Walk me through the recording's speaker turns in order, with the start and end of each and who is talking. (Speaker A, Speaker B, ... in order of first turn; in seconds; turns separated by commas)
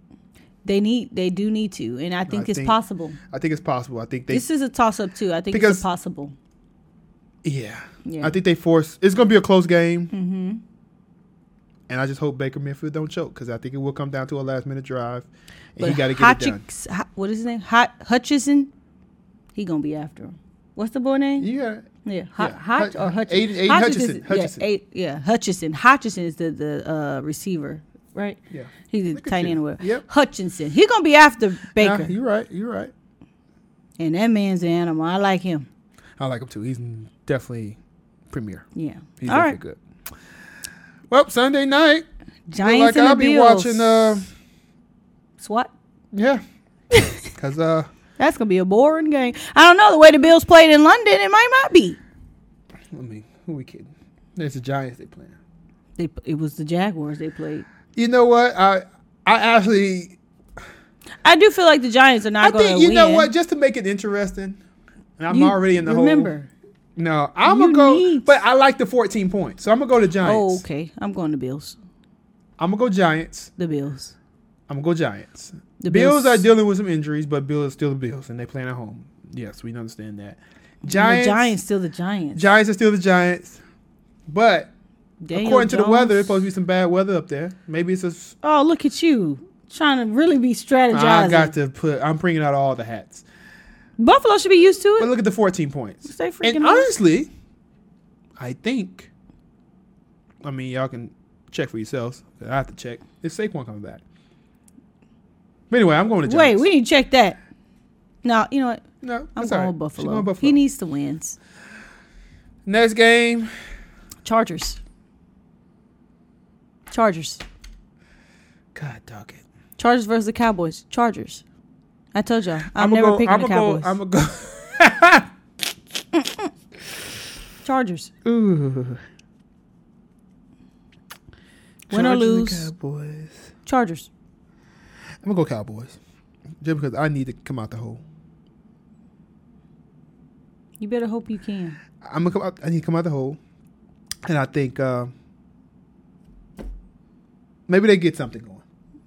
Speaker A: 0.6-3.2, Speaker B: 2.3-2.8, Speaker B: 3.3-4.5, Speaker A: 4.3-6.3, Speaker B: 5.5-5.8, Speaker B: 7.4-10.1, Speaker A: 8.0-8.3, Speaker A: 10.1-10.6, Speaker B: 11.9-16.6, Speaker A: 15.8-18.7, Speaker A: 19.5-21.5, Speaker B: 21.4-21.9, Speaker A: 22.0-32.1, Speaker B: 22.4-24.6, Speaker B: 28.5-30.0, Speaker B: 31.8-32.9, Speaker A: 34.0-35.7, Speaker B: 36.2-37.8, Speaker B: 38.3-38.6, Speaker A: 38.7-39.6, Speaker B: 39.2-39.8, Speaker B: 41.1-42.0, Speaker A: 42.5-44.1, Speaker B: 42.6-44.3, Speaker A: 45.4-45.7, Speaker B: 46.1-46.4, Speaker A: 46.9-47.2, Speaker B: 47.2-47.9, Speaker A: 48.2-52.0, Speaker B: 52.9-55.3, Speaker A: 56.0-57.7, Speaker B: 58.0-60.2, Speaker A: 61.2-63.3, Speaker B: 62.4-64.6, Speaker B: 65.2-66.3, Speaker A: 65.3-66.5, Speaker B: 67.0-70.6, Speaker A: 67.4-68.4, Speaker A: 70.2-71.8, Speaker B: 72.6-73.5, Speaker A: 73.6-74.1, Speaker B: 74.7-81.5, Speaker A: 75.8-76.5, Speaker A: 80.8-82.4, Speaker B: 82.3-83.6, Speaker B: 84.3-84.7, Speaker A: 85.2-86.4, Speaker B: 85.3-88.3, Speaker A: 88.4-91.5, Speaker B: 90.9-93.2, Speaker A: 94.0-95.1, Speaker B: 95.0-97.3, Speaker A: 96.0-96.9, Speaker B: 98.4-99.1, Speaker B: 100.4-104.0, Speaker B: 105.7-106.7, Speaker A: 106.2-107.4, Speaker A: 108.2-108.8, Speaker B: 109.0-110.6, Speaker A: 109.3-111.4, Speaker B: 112.7-113.5, Speaker A: 114.2-114.8, Speaker A: 116.9-117.4, Speaker B: 118.7-119.4, Speaker A: 119.8-121.4, Speaker A: 122.1-123.9, Speaker B: 122.7-125.3, Speaker A: 126.2-126.5, Speaker A: 127.6-128.1, Speaker B: 128.2-129.0, Speaker B: 131.9-133.4, Speaker A: 131.9-132.7, Speaker A: 133.7-134.1, Speaker B: 135.2-136.0, Speaker B: 136.6-138.0, Speaker A: 140.8-141.8, Speaker B: 142.0-143.4, Speaker B: 144.2-145.1, Speaker B: 147.7-148.6